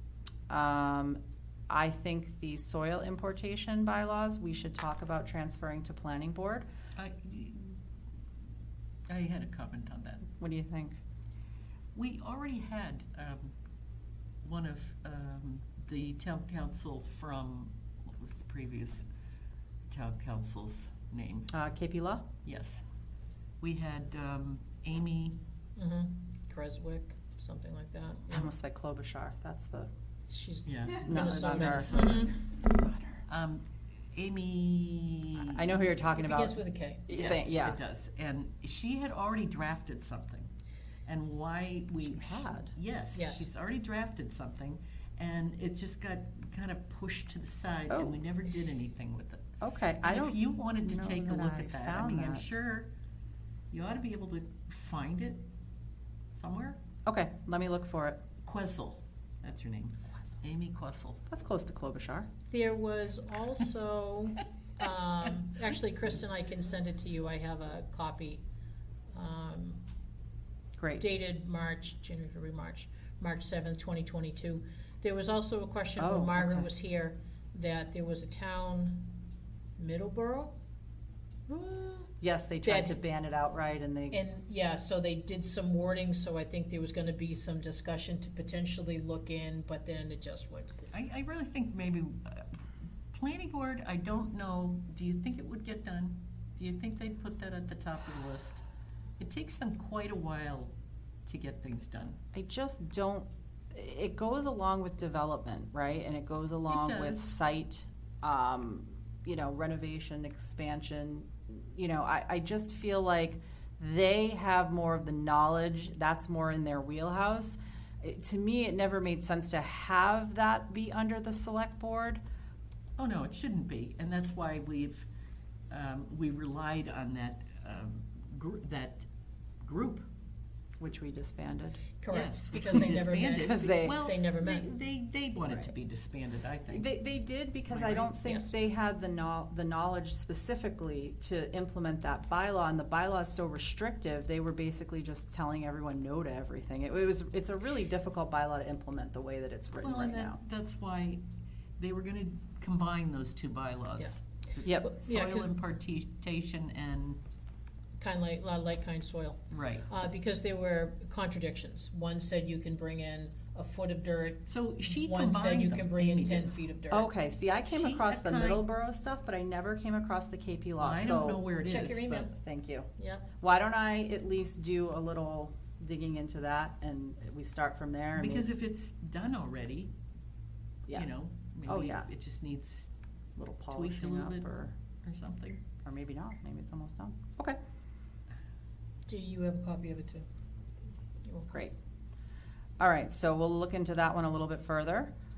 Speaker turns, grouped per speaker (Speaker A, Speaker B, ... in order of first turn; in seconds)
Speaker A: 0.5-6.7, 10.3-11.0, 21.5-22.2, 28.3-29.9, 31.0-31.9, 32.7-33.2, 35.5-37.8, 42.0-42.7, 47.9-48.2, 49.6-52.5, 57.0-58.2, 61.3-62.3, 70.8-71.0, 76.0-76.7, 82.2-84.2, 102.3-122.2, 130.8-131.8, 133.4-134.1, 136.7-150.4, 154.6-154.9, 166.9-171.4, 172.1-172.9, 173.4-178.4, 181.7-182.1, 183.3-184.7, 185.8-187.6, 192.8-195.1
Speaker B: 7.0-7.8, 9.1-10.3, 11.9-13.5, 14.4-19.1, 19.9-21.5, 22.4-22.8, 23.6-25.4, 30.6-32.4, 33.3-35.8, 37.1-40.5, 41.0-49.4, 50.0-52.9, 53.7-55.5, 56.3-56.8, 58.4-61.2, 90.9-92.5, 93.1-98.6, 99.2-100.7, 101.2-102.2, 106.7-107.3, 123.0-125.1, 125.7-129.1, 129.6-130.1, 132.1-136.9, 137.7-138.2, 149.8-151.2, 151.8-157.2, 159.5-159.9, 164.5-166.6, 167.7-168.7, 170.8-172.2, 178.2-179.9, 180.9-182.9, 183.7-185.6
Speaker C: 25.8-28.5, 30.3-32.3, 36.1-37.0, 43.1-43.5, 62.5-68.4, 69.1-69.8, 71.0-79.2, 79.8-80.6, 81.5-83.0, 84.1-90.8, 132.0-134.7, 138.2-138.5, 154.8-155.5, 158.0-164.5, 165.0-167.1, 171.6-172.3, 173.0-173.2, 189.1-190.2, 191.2-191.6